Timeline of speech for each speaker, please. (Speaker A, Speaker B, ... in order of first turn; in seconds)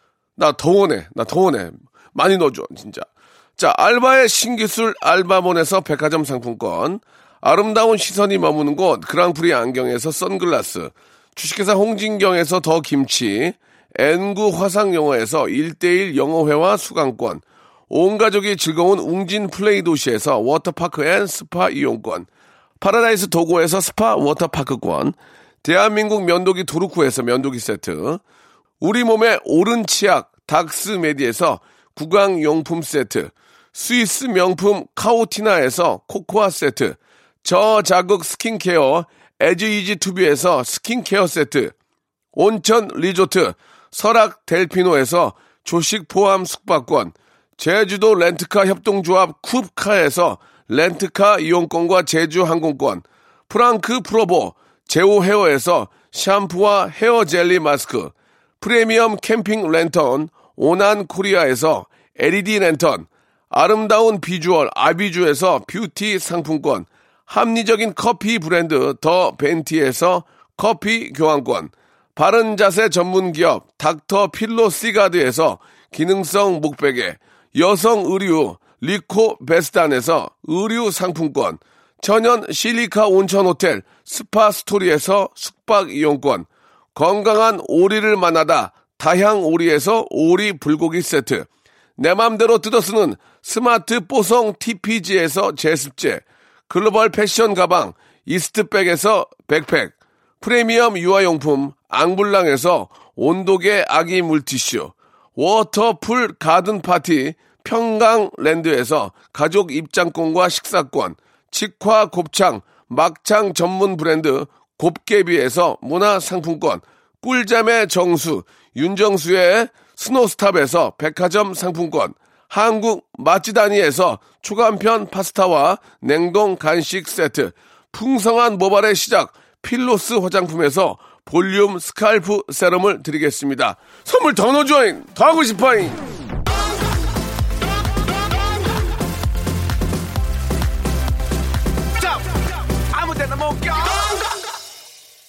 Speaker A: 0.4-22.3, 22.8-28.2, 28.8-41.7, 42.4-136.1, 142.9-144.1